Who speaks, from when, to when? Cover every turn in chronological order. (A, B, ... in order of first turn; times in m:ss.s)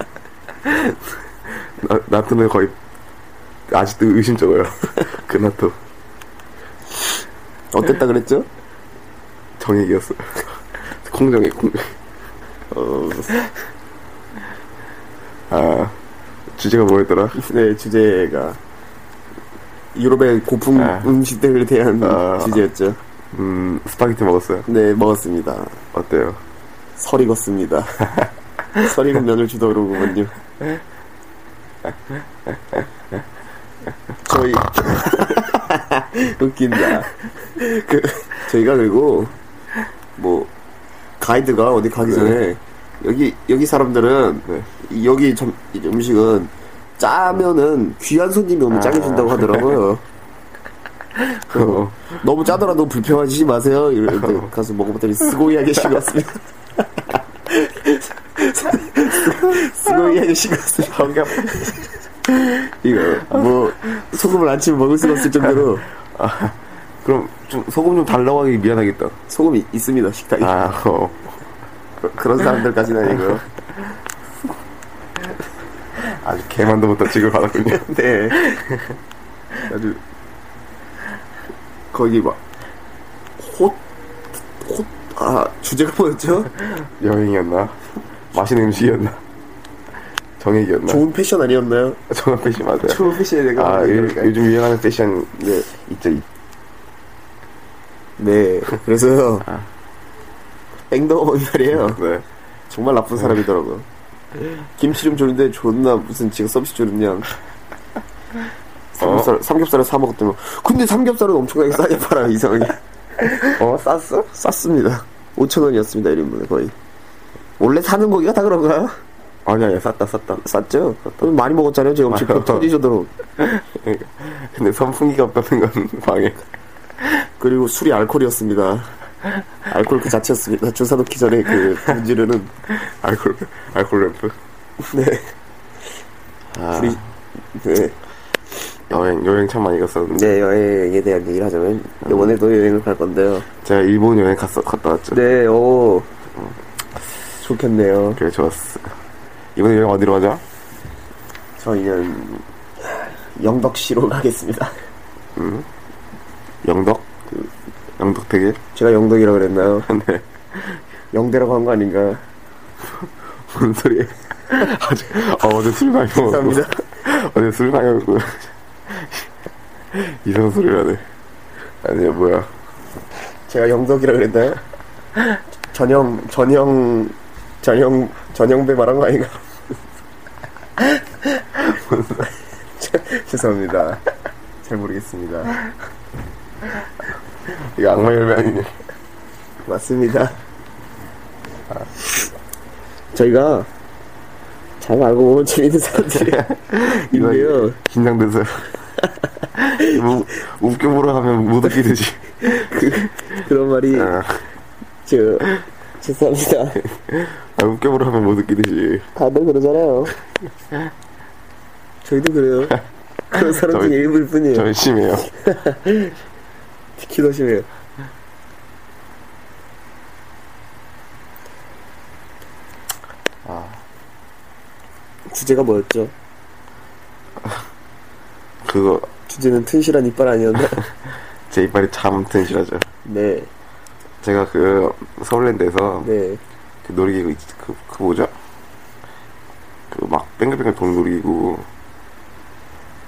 0:00.6-0:02.8 A
0:03.7-0:05.8 A
0:07.7-0:08.5 B
0:09.6-0:12.0 A
0:12.7-0:13.4 B
0:15.5-0:16.0 A
0:16.5-0:17.4 A
0:17.4-0:18.6 B
0:19.9-0:23.0 B
0:20.7-0:21.1 A
0:22.0-0:22.6 A
0:23.3-0:24.7 A
0:24.7-0:25.8 B
0:25.9-0:26.4 A
0:27.0-0:28.0 B
0:28.8-0:30.3 B
0:34.2-0:39.3 B
0:40.2-0:40.5 B
0:41.2-0:50.0 B
0:42.0-0:42.4 A
0:48.7-0:49.8 A
0:51.2-0:52.2 A
0:51.5-1:01.9 B
0:54.1-0:54.5 A
0:59.1-1:00.2 A
1:00.8-1:01.8 A
1:02.5-1:05.9 B
1:03.1-1:04.1 A
1:05.2-1:09.2 A
1:09.3-1:10.6 B
1:10.4-1:11.5 A
1:12.0-1:13.4 B
1:16.0-1:17.9 A
1:17.7-1:18.5 B
1:18.4-1:18.8 A
1:19.7-1:20.0 B
1:21.9-1:22.4 B
1:23.4-1:23.8 B
1:24.6-1:26.5 B
1:26.6-1:27.8 A
1:28.3-1:29.2 A
1:30.4-1:31.0 A
1:30.8-1:32.0 B
1:32.1-1:36.2 A
1:32.8-1:34.4 B
1:35.4-1:35.7 B
1:38.2-1:39.5 B
1:40.9-1:42.0 B
1:41.7-1:42.2 A
1:42.7-1:43.8 B
1:44.7-1:47.3 B
1:48.9-1:53.4 B
1:49.0-1:49.3 A
1:53.4-1:54.3 A
1:54.3-1:56.7 B
1:57.6-1:59.0 B
1:59.4-2:00.4 A
2:00.4-2:03.1 B
2:02.1-2:02.7 A
2:03.4-2:06.4 A
2:07.4-2:08.9 B
2:09.6-2:12.5 B
2:12.7-2:14.4 A
2:14.8-2:15.3 B
2:16.5-2:17.0 A
2:16.7-2:17.0 B
2:17.6-2:17.9 B
2:18.9-2:20.4 A
2:20.1-2:23.4 B
2:22.0-2:22.3 A
2:23.6-2:25.2 A
2:25.1-2:26.1 B
2:27.4-2:28.2 B
2:28.2-2:28.9 A
2:29.5-2:30.4 A
2:31.6-2:34.7 B
2:35.4-2:35.6 A
2:36.6-2:37.1 A
2:38.0-2:38.6 A
2:38.7-2:39.9 B
2:39.8-2:40.8 A
2:41.1-2:42.2 B
2:43.5-2:49.2 A
2:46.1-2:46.8 B
2:49.9-2:51.0 A
2:51.8-2:52.5 A
2:53.5-2:54.6 B
2:55.7-2:59.4 B
3:01.7-3:02.3 A
3:02.8-3:04.0 B
3:04.6-3:05.6 B
3:07.4-3:08.8 A
3:09.6-3:10.3 B
3:13.1-3:13.7 B
3:14.8-3:17.8 B
3:16.0-3:18.7 A
3:19.7-3:23.3 A
3:22.4-3:24.1 B
3:23.9-3:24.4 A
3:25.0-3:26.8 B
3:26.8-3:29.1 A
3:29.1-3:30.1 B
3:32.0-3:32.8 B
3:33.3-3:34.7 B
3:33.3-3:35.3 A
3:35.3-3:36.1 B
3:37.0-3:37.7 B
3:43.4-3:43.8 A
3:45.3-3:46.1 B
3:48.6-3:49.1 A
3:49.3-3:50.8 B
3:51.5-3:52.9 A
3:53.0-3:53.5 B
3:54.2-3:56.1 A
3:56.0-3:56.4 B
3:56.8-3:58.3 A
3:59.9-4:01.7 A